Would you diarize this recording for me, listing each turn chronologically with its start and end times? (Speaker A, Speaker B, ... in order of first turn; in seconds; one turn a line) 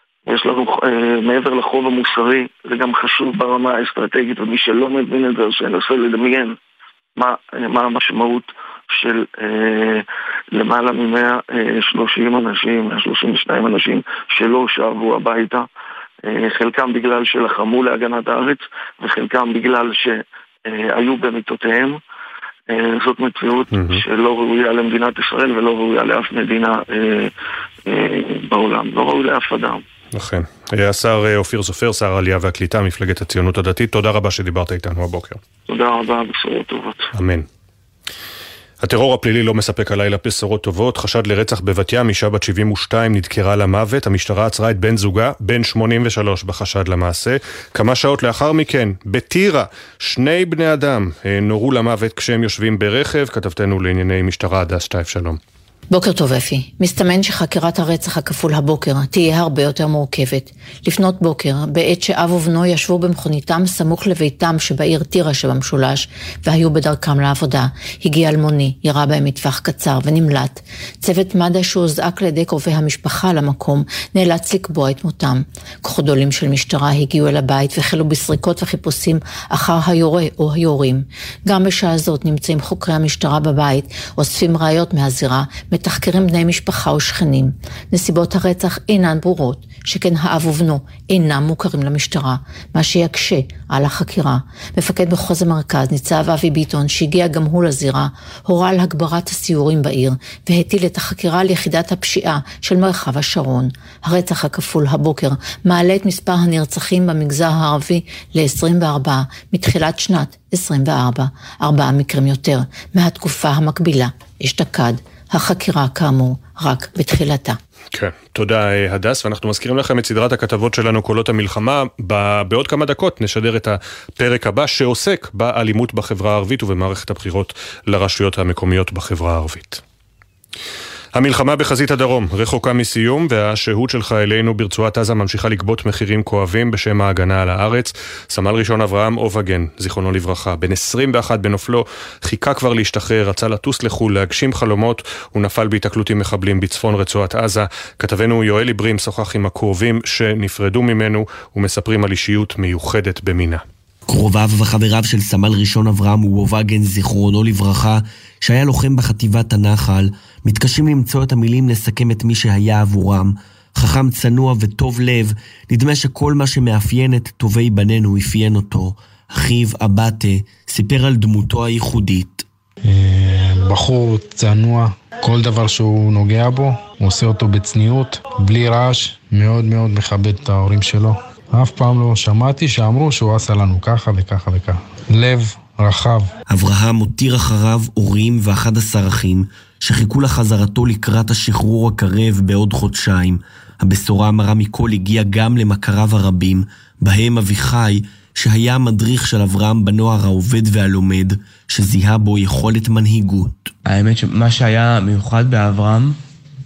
Speaker A: 0.2-6.5
Speaker A: 7.2-15.7
Speaker A: 16.2-22.0
Speaker A: 22.7-27.3
Speaker B: 23.7-24.0
Speaker A: 27.9-29.8
Speaker B: 30.1-35.4
Speaker A: 35.7-37.1
Speaker B: 37.1-37.5
Speaker B: 38.8-55.4
Speaker C: 55.9-117.6
Speaker B: 117.9-129.8
Speaker B: 131.1-153.6
Speaker D: 154.1-172.4
Speaker E: 172.8-186.3
Speaker D: 186.5-203.7
Speaker F: 203.9-206.1